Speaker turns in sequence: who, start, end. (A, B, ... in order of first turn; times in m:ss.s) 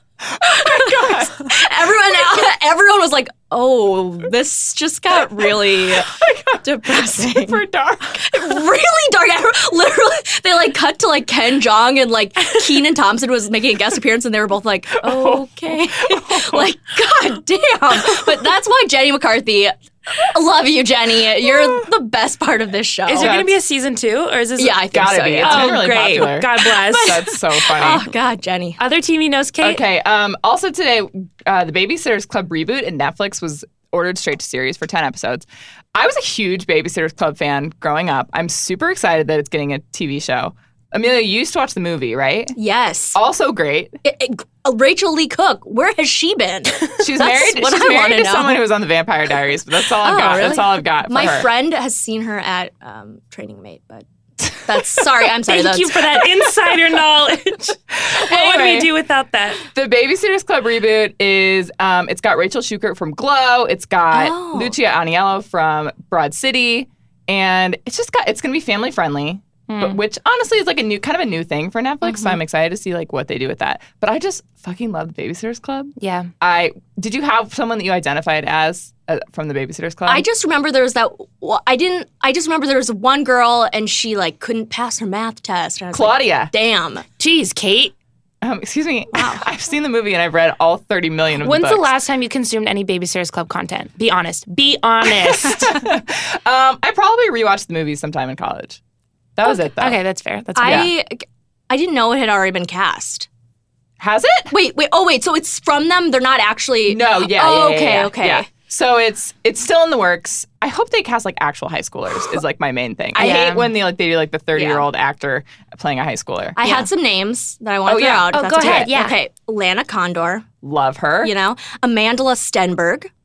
0:00.2-0:01.6 A
0:00.4-0:07.6 B
0:05.6-0:08.6 A
0:08.2-0:23.4 B
0:15.0-0:16.7 A
0:23.1-0:24.8 C
0:23.2-0:23.6 A
0:24.6-0:28.8 B
0:24.9-0:28.1 A
0:25.4-0:27.7 C
0:28.8-0:29.8 C
0:29.6-0:42.6 A
0:42.6-0:43.2 B
0:43.2-0:44.0 A
0:44.0-0:48.6 B
0:47.0-0:51.5 A
0:50.0-0:56.2 B
0:55.4-0:59.6 C
0:57.9-0:58.9 A
0:59.7-1:20.2 A
1:04.1-1:04.7 B
1:09.7-1:10.0 C
1:16.0-1:16.3 C
1:20.1-1:27.0 B
1:25.9-1:26.5 A
1:27.2-1:27.9 C
1:28.4-1:31.9 A
1:29.1-1:29.5 B
1:31.4-1:35.8 C
1:35.4-1:38.8 A
1:39.4-1:40.0 A
1:39.8-1:40.9 C
1:40.6-1:43.3 B
1:40.6-1:40.9 A
1:44.0-1:44.5 A
1:44.5-1:48.5 B
1:46.9-1:56.6 A
1:53.2-1:53.7 B
1:53.2-1:53.7 C
1:54.6-1:54.9 B
1:56.6-2:00.5 B
1:57.9-1:58.9 A
1:58.3-1:59.1 C
2:00.6-2:01.3 A
2:01.2-2:03.1 B